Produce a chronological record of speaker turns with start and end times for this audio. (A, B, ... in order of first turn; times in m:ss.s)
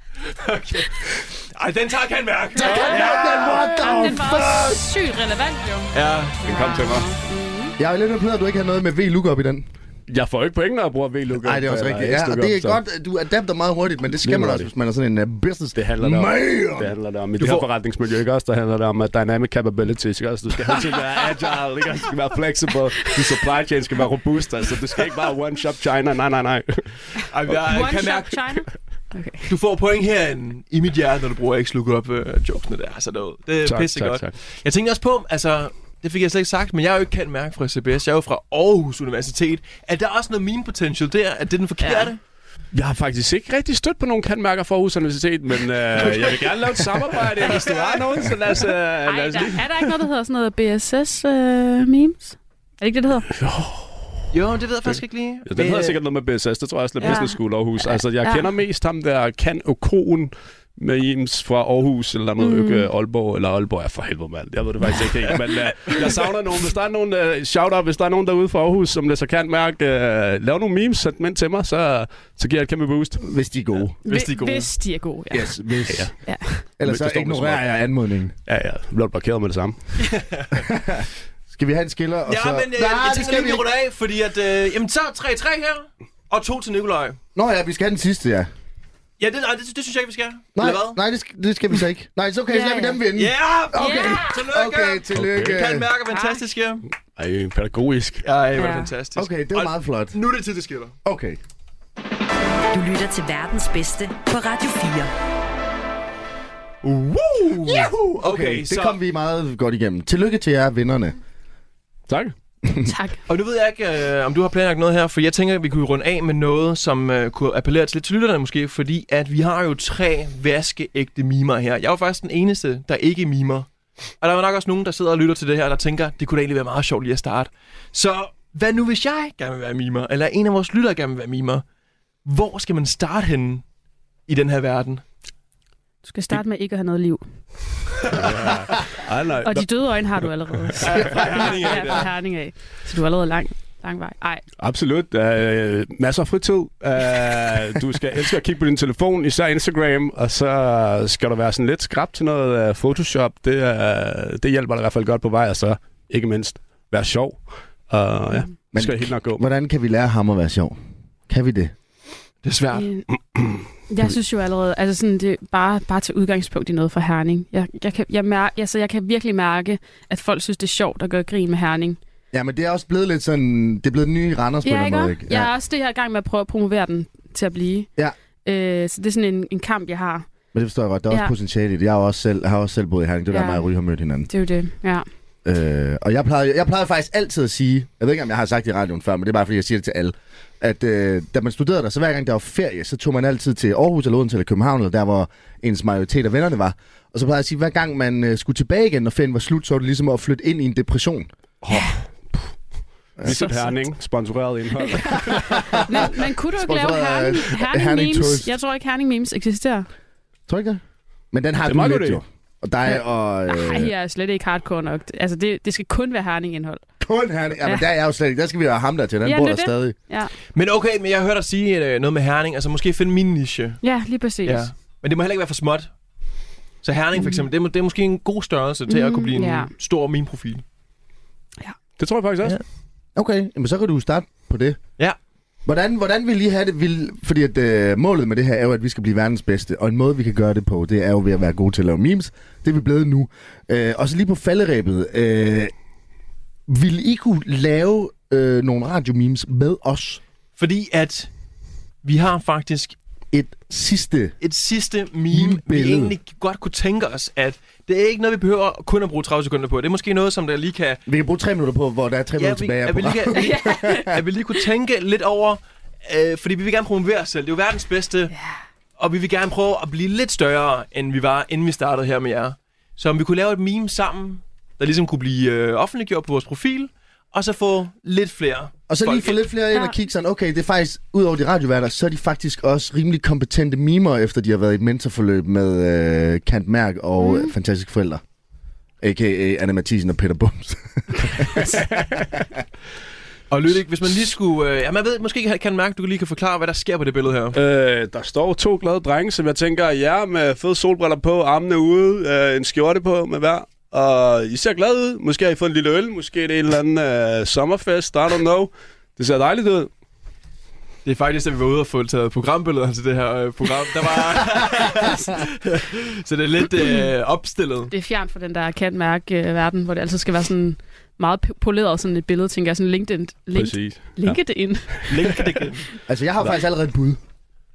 0:00.2-0:03.7 A
0:02.6-0:07.8 B
0:02.6-0:04.8 C
0:02.7-0:04.2 D
0:05.9-0:06.7 A
0:06.4-0:07.1 D
0:07.8-0:09.7 C
0:10.1-0:12.8 D
0:11.3-0:16.9 C
0:14.2-0:14.7 D
0:15.8-0:27.2 D
0:17.4-0:17.7 A
0:27.3-0:28.6 A
0:27.6-0:29.5 B
0:29.5-0:42.2 A
0:33.6-0:34.3 D
0:41.8-0:42.1 B
0:42.7-0:49.7 D
0:46.0-0:46.4 A
0:47.5-0:47.9 B
0:49.0-0:53.3 B
0:53.4-0:54.1 D
0:54.3-0:56.0 A
0:55.5-1:13.2 D
0:57.0-0:58.5 B
1:02.4-1:02.9 B
1:13.2-1:14.0 C
1:14.0-1:14.7 A
1:14.0-1:15.6 B
1:15.3-1:18.3 C
1:15.9-1:17.6 D
1:16.2-1:16.6 B
1:18.5-1:19.8 D
1:20.1-1:20.5 A
1:20.6-1:23.6 C
1:22.3-1:27.2 A
1:27.4-1:28.5 C
1:29.2-1:31.0 A
1:30.6-1:35.9 C
1:32.5-1:33.0 B
1:33.1-1:36.8 A
1:33.8-1:34.4 B
1:35.1-1:35.6 D
1:36.1-1:36.4 B
1:37.2-1:38.2 D
1:38.2-1:40.9 A
1:38.6-1:38.9 B
1:39.2-1:40.2 C
1:41.0-1:41.4 C
1:42.7-1:45.1 E
1:46.8-1:49.0 A
1:48.2-1:51.2 C
1:52.1-1:52.3 D
1:52.6-1:52.9 C
1:52.9-1:53.2 B
1:53.3-2:03.7 A
2:04.2-2:11.6 A
2:12.2-2:13.6 A
2:14.3-2:15.0 A
2:16.0-2:17.2 B
2:18.1-2:21.8 D
2:19.4-2:24.4 B
2:20.8-2:22.1 A
2:24.6-2:39.4 D
2:38.7-2:40.8 C
2:41.3-2:41.7 C
2:42.4-2:42.9 A
2:42.7-2:43.1 B
2:43.9-2:52.0 B
2:52.3-2:55.5 C
2:54.6-2:57.9 B
2:58.4-3:00.3 B
3:00.5-3:04.3 C
3:03.3-3:03.6 B
3:04.3-3:05.0 B
3:05.4-3:21.3 C
3:21.6-3:22.4 D
3:23.2-3:25.8 D
3:23.3-3:23.8 B
3:24.8-3:29.9 B
3:25.3-3:28.5 C
3:30.5-3:30.8 C
3:31.3-3:33.9 C
3:31.7-3:32.2 D
3:32.9-3:36.8 B
3:37.0-3:40.0 C
3:39.2-3:40.3 B
3:40.5-3:43.8 A
3:43.8-3:44.7 B
3:44.4-3:45.9 A
3:46.8-3:50.6 A
3:48.9-3:49.7 B
3:52.0-3:52.6 D
3:53.2-3:54.8 C
3:55.7-4:05.7 C
4:06.7-4:10.2 C
4:10.6-4:11.3 A
4:12.0-4:13.0 A
4:13.3-4:14.3 C
4:14.4-4:21.0 A
4:15.3-4:16.2 C
4:21.1-4:24.1 C
4:22.4-4:28.3 A
4:23.3-4:24.2 B
4:29.0-4:39.5 A
4:38.9-4:48.2 C
4:47.2-4:47.5 B
4:49.0-4:51.8 C
4:51.7-4:52.4 D
4:53.5-4:57.6 A
4:57.5-5:09.9 D
5:11.0-5:17.9 A
5:17.9-5:25.5 B
5:23.5-5:24.4 D
5:25.1-5:25.9 A
5:26.1-5:27.2 C